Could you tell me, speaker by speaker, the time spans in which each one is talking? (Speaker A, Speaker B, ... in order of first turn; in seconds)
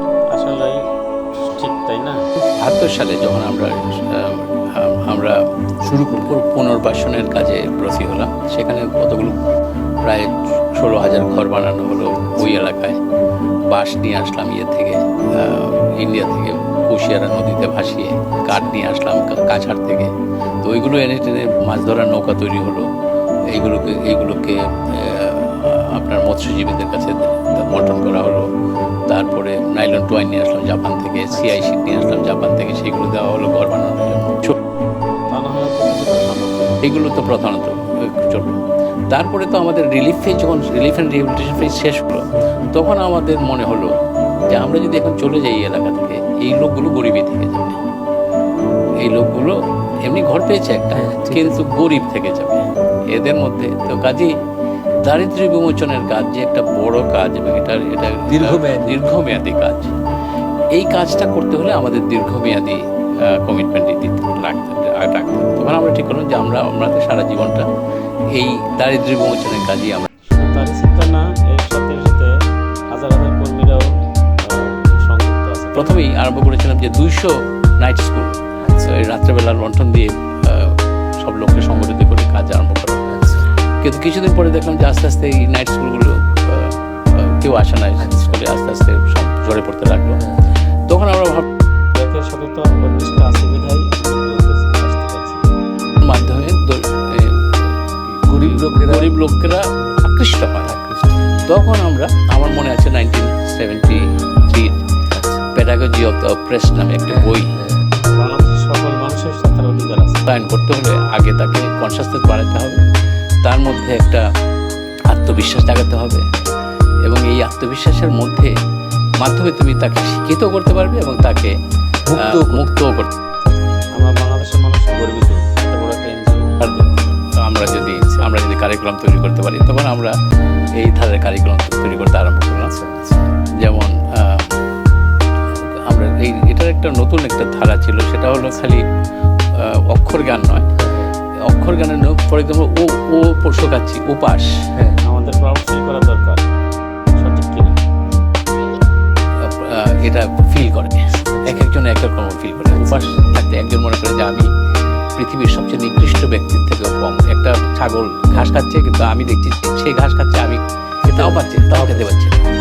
Speaker A: 0.3-0.8, 1.6-2.2, 35.3-36.8, 70.3-72.3, 72.9-73.9, 74.5-76.0, 92.0-95.4, 108.1-110.3, 124.0-126.5, 145.0-146.5, 147.2-147.8
Speaker B: 2.6-5.4, 5.9-9.4, 10.0-13.0, 13.7-20.1, 20.6-22.9, 23.5-28.4, 29.1-34.6, 36.8-43.9, 44.5-47.8, 49.0-49.5, 50.1-54.3, 55.0-60.0, 60.7-62.8, 63.4-67.7, 68.3-70.1, 75.8-78.3, 78.9-90.2, 90.9-91.5, 96.0-100.7, 101.5-104.8, 105.5-107.5, 110.3-112.8, 113.4-114.2, 115.1-116.2, 117.1-118.5, 119.2-121.5, 122.2-123.1, 126.6-130.1, 130.8-132.7, 133.6-134.5, 135.5-138.8, 139.6-140.7, 141.5-144.5, 149.4-154.5, 155.2-160.6, 161.1-162.4
Speaker C: 5.8-6.4, 12.1-12.5, 18.4-18.8, 31.3-31.7, 50.9-51.7, 58.3-59.2, 78.6-79.0, 83.1-83.5, 88.0-88.4, 90.2-90.5, 98.3-99.6, 100.7-101.2, 105.1-105.4, 107.1-107.8, 122.1-122.6, 127.6-128.3, 132.6-133.3, 138.3-138.7, 140.8-141.1, 144.8-145.0, 151.3-151.7, 152.7-153.3, 161.0-162.1